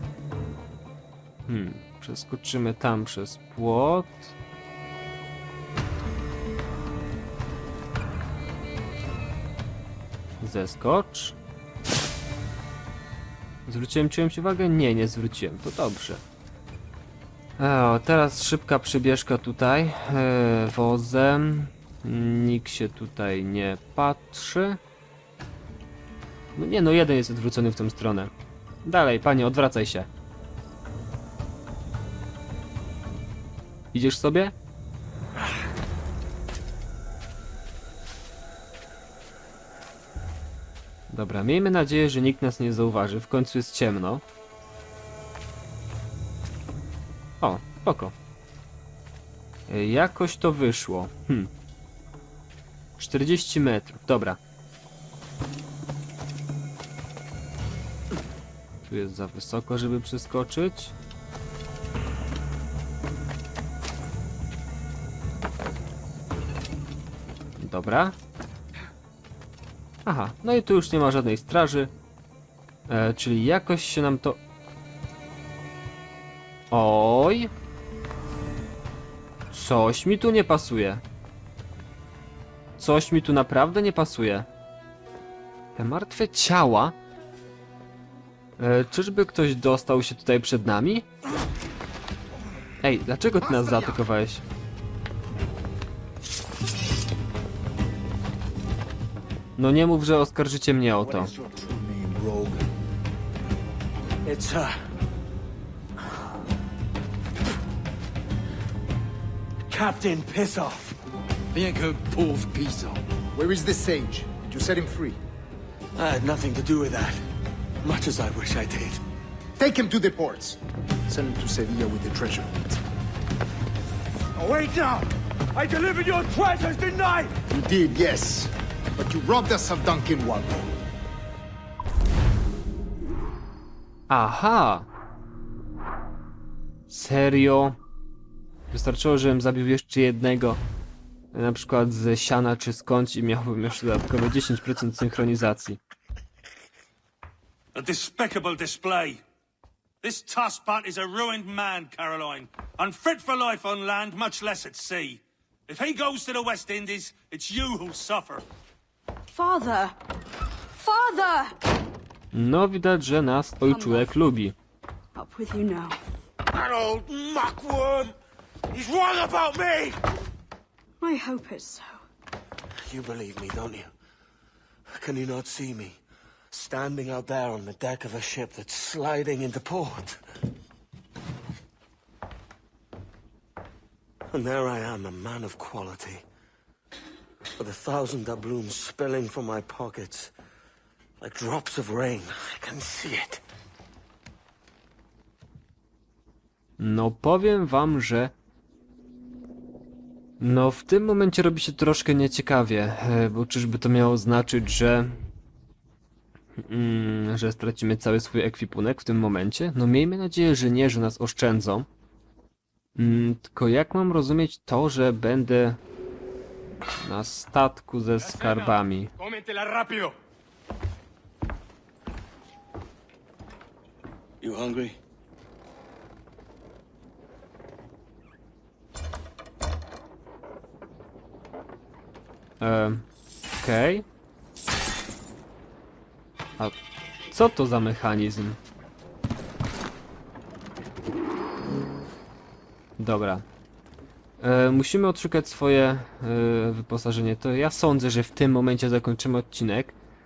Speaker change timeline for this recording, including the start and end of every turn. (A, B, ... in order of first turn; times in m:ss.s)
0:01.5-0:04.3 A
0:10.4-0:11.4 A
0:13.7-0:16.2 A
0:17.6-0:24.8 A
0:26.6-0:28.3 A
0:28.8-0:30.1 A
0:33.9-0:34.5 A
0:41.1-0:44.2 A
0:47.4-0:48.1 A
0:49.7-0:51.5 A
0:53.0-0:54.4 A
0:58.8-1:00.9 A
1:07.6-1:08.2 A
1:10.0-1:11.9 A
1:12.9-1:14.4 A
1:16.7-1:17.5 A
1:19.5-1:21.0 A
1:22.8-1:24.5 A
1:25.7-1:27.0 A
1:28.6-1:31.1 A
1:32.8-1:34.4 A
1:39.6-1:41.3 A
1:41.0-1:41.7 B
1:41.6-1:42.7 C
1:44.2-1:44.8 B
1:49.7-1:51.0 B
1:51.5-1:53.0 B
1:53.3-1:55.2 C
1:55.9-1:57.2 B
1:57.8-1:59.0 B
1:59.6-2:02.8 C
2:04.3-2:07.4 B
2:07.5-2:10.7 C
2:14.1-2:14.9 A
2:16.9-2:17.8 A
2:18.7-2:20.6 A
2:21.3-2:25.8 A
2:27.7-2:29.2 D
2:30.0-2:38.4 D
2:39.3-2:40.0 E
2:40.7-2:41.5 E
2:42.3-2:44.5 A
2:43.6-2:44.1 E
2:45.1-2:46.0 E
2:46.5-2:48.1 B
2:48.7-2:50.0 B
2:51.0-2:52.0 E
2:52.8-2:53.9 B
2:54.9-2:56.0 B
2:56.5-3:00.2 B
3:04.3-3:06.2 B
3:07.6-3:10.3 B
3:11.2-3:13.4 B
3:16.8-3:18.3 A
3:20.4-3:25.3 A
3:26.6-3:31.9 A
3:33.0-3:35.8 A
3:37.0-3:39.1 A
3:39.2-3:40.1 B
3:44.4-3:45.0 B
3:52.6-3:54.0 A
3:57.3-3:58.6 A
4:03.0-4:03.4 A
4:04.4-4:10.0 A